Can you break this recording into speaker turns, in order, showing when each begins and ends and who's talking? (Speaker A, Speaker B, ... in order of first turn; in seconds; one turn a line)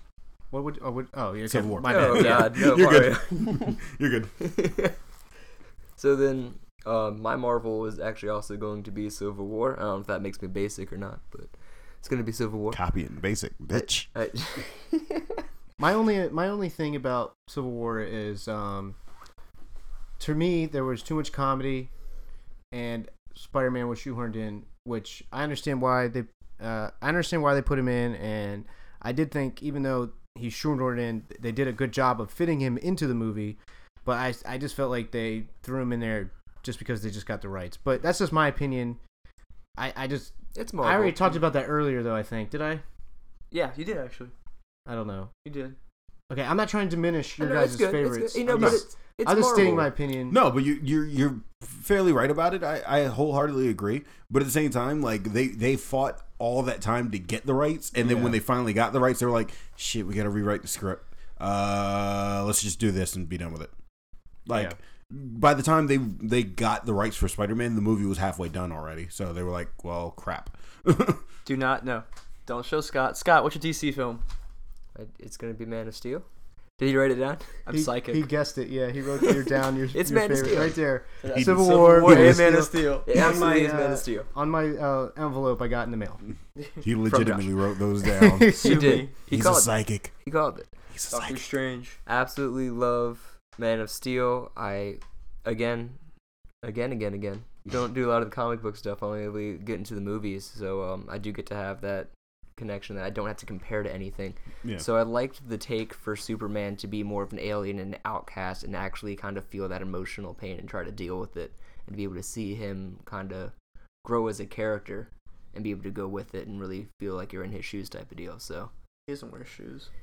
Speaker A: 0.5-2.5
Speaker B: 1.5-4.5
Speaker C: 1.8-3.8
Speaker C: 4.4-4.9
Speaker C: 6.0-11.5
Speaker C: 12.0-12.8
Speaker B: 12.7-14.1
Speaker C: 13.7-15.4
Speaker A: 15.8-18.9
Speaker A: 20.2-21.9
Speaker A: 22.7-39.0
Speaker A: 39.8-42.8
Speaker C: 40.5-41.4
Speaker D: 43.5-44.3
Speaker A: 44.9-45.3
Speaker D: 45.4-45.8
Speaker A: 46.3-50.4
Speaker C: 47.4-49.9
Speaker B: 48.5-48.8
Speaker B: 49.5-63.7
Speaker A: 58.0-58.4
Speaker B: 64.5-71.2
Speaker A: 64.5-64.8
Speaker D: 71.4-74.2
Speaker C: 74.9-76.2
Speaker C: 76.8-77.6
Speaker D: 77.7-78.3
Speaker A: 77.7-86.2
Speaker C: 79.9-80.8
Speaker D: 81.2-83.8
Speaker C: 81.4-84.3
Speaker B: 86.8-88.5
Speaker C: 87.0-87.7
Speaker A: 88.1-89.0
Speaker C: 88.4-90.7
Speaker D: 88.5-89.1
Speaker B: 89.3-90.1
Speaker B: 90.9-91.5
Speaker D: 91.1-92.0
Speaker C: 92.0-96.0
Speaker C: 96.6-118.7
Speaker D: 119.1-119.9